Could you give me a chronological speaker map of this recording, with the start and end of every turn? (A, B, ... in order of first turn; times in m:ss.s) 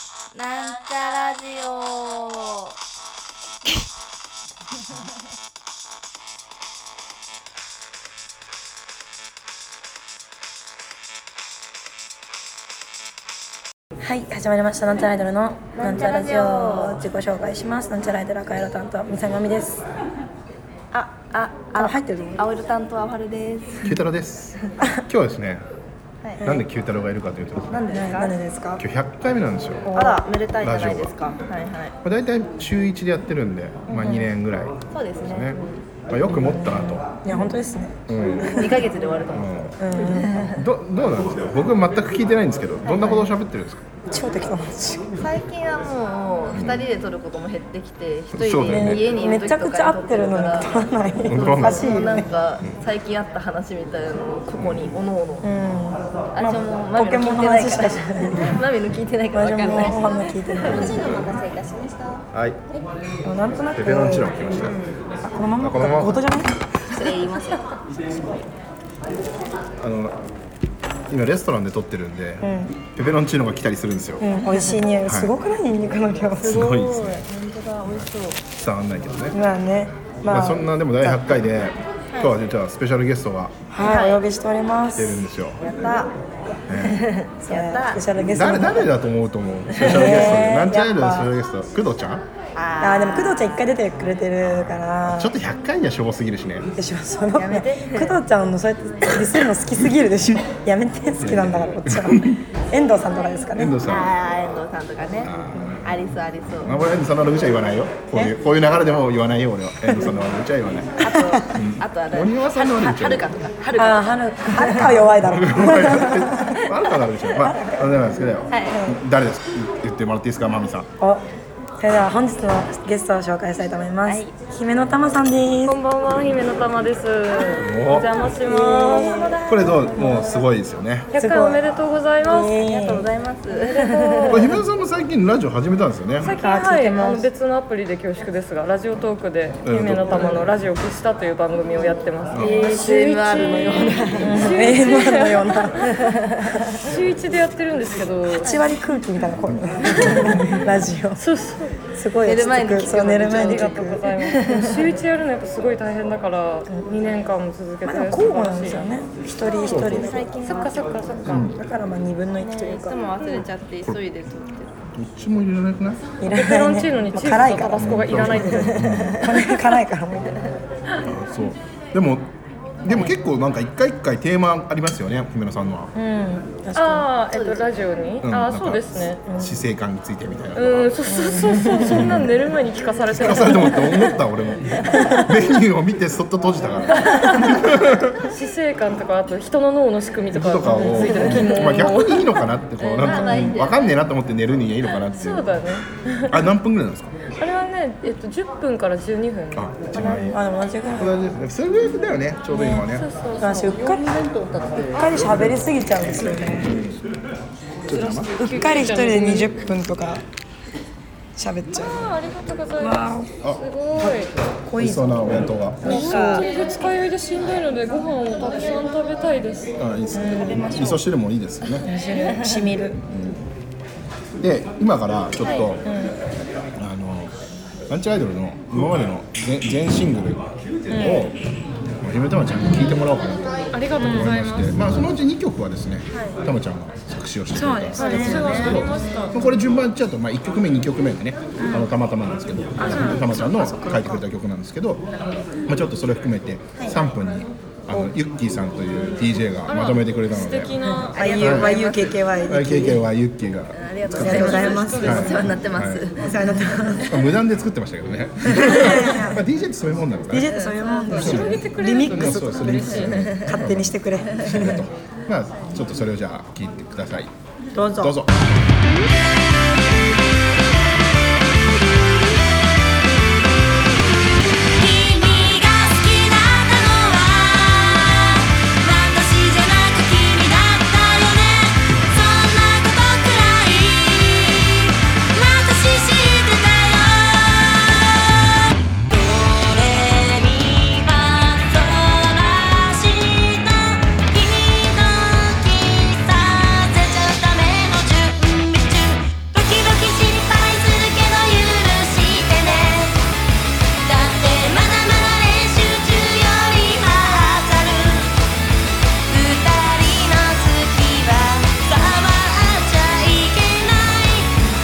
0:00.3-0:02.8 A
0:14.0-0:19.8 B
0:15.8-0:17.1 A
0:20.9-0:24.0 A
0:21.8-0:22.5 B
0:23.8-0:25.6 C
0:26.4-0:27.8 C
0:27.7-0:28.4 A
0:27.9-0:28.8 B
0:28.8-0:29.9 C
0:29.9-0:30.2 B
0:29.9-0:32.0 A
0:30.6-0:31.1 C
0:32.0-0:35.6 C
0:33.9-0:34.3 B
0:34.9-0:35.8 A
0:36.1-0:37.1 C
0:36.3-0:38.8 B
0:38.1-0:38.6 C
0:38.4-0:40.6 A
0:39.3-0:39.8 C
0:39.8-0:40.4 B
0:40.6-0:43.8 C
0:42.9-0:43.3 A
0:44.1-0:45.1 B
0:45.2-0:55.5 A
0:46.5-0:46.9 C
0:48.3-0:49.1 C
0:48.6-0:52.3 B
0:51.3-0:52.0 C
0:54.6-0:54.9 C
0:55.4-0:58.6 B
0:56.4-1:02.2 A
0:59.3-1:01.1 B
1:00.7-1:01.2 C
1:02.3-1:02.6 C
1:03.2-1:04.4 B
1:03.8-1:04.8 C
1:05.2-1:06.6 B
1:05.6-1:06.2 C
1:06.9-1:08.4 A
1:09.8-1:10.2 C
1:11.1-1:14.2 C
1:12.4-1:12.7 B
1:14.2-1:16.7 B
1:14.5-1:14.8 A
1:15.0-1:15.3 C
1:16.4-1:18.4 A
1:16.5-1:17.2 C
1:17.9-1:19.4 C
1:19.3-1:21.2 B
1:20.3-1:23.6 C
1:23.7-1:25.3 B
1:23.8-1:24.2 A
1:25.0-1:25.6 C
1:25.6-1:26.2 A
1:26.7-1:27.0 C
1:26.8-1:28.0 A
1:27.4-1:28.9 B
1:28.3-1:32.2 C
1:29.8-1:31.3 B
1:29.8-1:30.4 A
1:32.6-1:33.4 A
1:32.8-1:35.4 B
1:35.1-1:36.7 C
1:36.8-1:43.8 B
1:37.3-1:38.2 A
1:41.2-1:42.4 C
1:43.5-1:44.1 C
1:43.8-1:45.3 A
1:45.2-1:45.9 C
1:45.8-1:46.8 A
1:46.6-1:53.3 C
1:49.9-1:50.1 B
1:51.0-1:54.9 A
1:51.1-1:51.5 B
1:53.8-1:56.6 B
1:54.7-2:00.9 C
1:57.3-1:58.0 B
1:58.5-1:58.8 A
1:58.7-1:59.0 B
2:01.0-2:01.2 B
2:01.8-2:05.8 B
2:04.1-2:04.4 A
2:05.6-2:09.3 D
2:07.6-2:08.2 C
2:08.4-2:10.4 B
2:09.1-2:10.3 A
2:09.5-2:11.1 C
2:11.1-2:11.6 B
2:11.1-2:12.6 D
2:12.2-2:13.1 B
2:12.5-2:14.6 A
2:13.6-2:14.6 D
2:14.3-2:16.3 C
2:16.2-2:26.0 D
2:16.3-2:17.3 B
2:19.6-2:20.4 C
2:22.4-2:22.6 C
2:22.4-2:24.4 A
2:24.2-2:26.7 B
2:26.1-2:26.7 A
2:26.7-2:28.6 D
2:28.4-2:31.2 B
2:29.9-2:30.5 D
2:29.9-2:30.4 C
2:31.2-2:31.8 D
2:31.9-2:34.1 B
2:32.2-2:34.9 A
2:33.2-2:38.9 D
2:37.8-2:40.8 B
2:39.7-2:40.1 C
2:39.7-2:40.8 A
2:40.4-2:41.5 D
2:41.2-2:41.6 C
2:41.3-2:43.3 B
2:42.4-2:44.8 A
2:45.0-2:46.0 C
2:46.2-2:50.4 B
2:46.3-2:48.9 D
2:47.8-2:49.3 C
2:48.8-2:49.5 A
2:51.0-2:52.3 C
2:52.8-2:55.9 C
2:56.0-2:57.1 B
2:56.8-2:59.2 D
2:57.3-2:57.7 A
2:58.2-3:00.9 C
2:59.2-2:59.6 B
3:00.5-3:04.0 D
3:01.0-3:02.3 B
3:01.8-3:02.3 C
3:03.1-3:08.3 C
3:03.5-3:03.7 B
3:04.9-3:05.2 B
3:07.0-3:07.6 D
3:08.2-3:12.5 D
3:10.3-3:15.6 C
3:10.7-3:11.9 B
3:12.8-3:13.9 A
3:13.0-3:13.6 D
3:15.1-3:16.5 D
3:16.3-3:17.2 C
3:17.4-3:19.8 D
3:19.6-3:20.4 C
3:19.9-3:21.2 B
3:21.0-3:23.1 C
3:22.5-3:24.2 B
3:22.6-3:23.8 D
3:24.8-3:26.8 B
3:26.6-3:27.0 C
3:27.9-3:28.3 C
3:27.9-3:29.5 D
3:28.4-3:30.2 B
3:31.4-3:32.2 B
3:31.8-3:34.3 D
3:32.8-3:33.3 B
3:33.4-3:34.2 C
3:34.7-3:36.5 B
3:34.8-3:36.1 C
3:35.8-3:39.8 D
3:35.8-3:36.5 A
3:39.8-3:41.9 C
3:40.1-3:40.8 B
3:40.3-3:41.0 A
3:41.8-3:43.0 B
3:42.2-3:42.8 A
3:43.0-3:43.5 C
3:44.4-3:45.9 C
3:45.4-3:45.7 D
3:45.8-3:46.2 B
3:46.8-3:47.3 C
3:47.9-3:51.4 C
3:50.9-3:51.3 B
3:52.0-4:05.1 C
3:53.7-3:54.7 D
3:54.0-3:54.4 B
3:56.1-3:56.4 A
3:57.5-3:59.3 B
3:57.9-3:59.6 D
3:58.1-3:58.8 A
4:01.6-4:01.9 B
4:02.8-4:04.2 B
4:02.9-4:03.2 D
4:05.7-4:10.8 C
4:07.9-4:08.2 B
4:09.7-4:11.5 D
4:11.2-4:12.4 A
4:11.2-4:13.1 B
4:11.4-4:11.8 C
4:12.5-4:16.1 C
4:13.7-4:16.4 A
4:14.1-4:15.5 B
4:14.3-4:15.5 D
4:16.2-4:17.3 B
4:16.9-4:20.6 C
4:18.5-4:19.4 B
4:20.3-4:24.9 B
4:20.5-4:21.2 A
4:20.8-4:23.3 D
4:21.2-4:27.3 C
4:23.1-4:23.6 A
4:27.7-4:28.2 B
4:28.0-4:28.3 C
4:34.7-5:03.2 E
5:04.0-5:08.3 E
5:09.3-5:14.6 E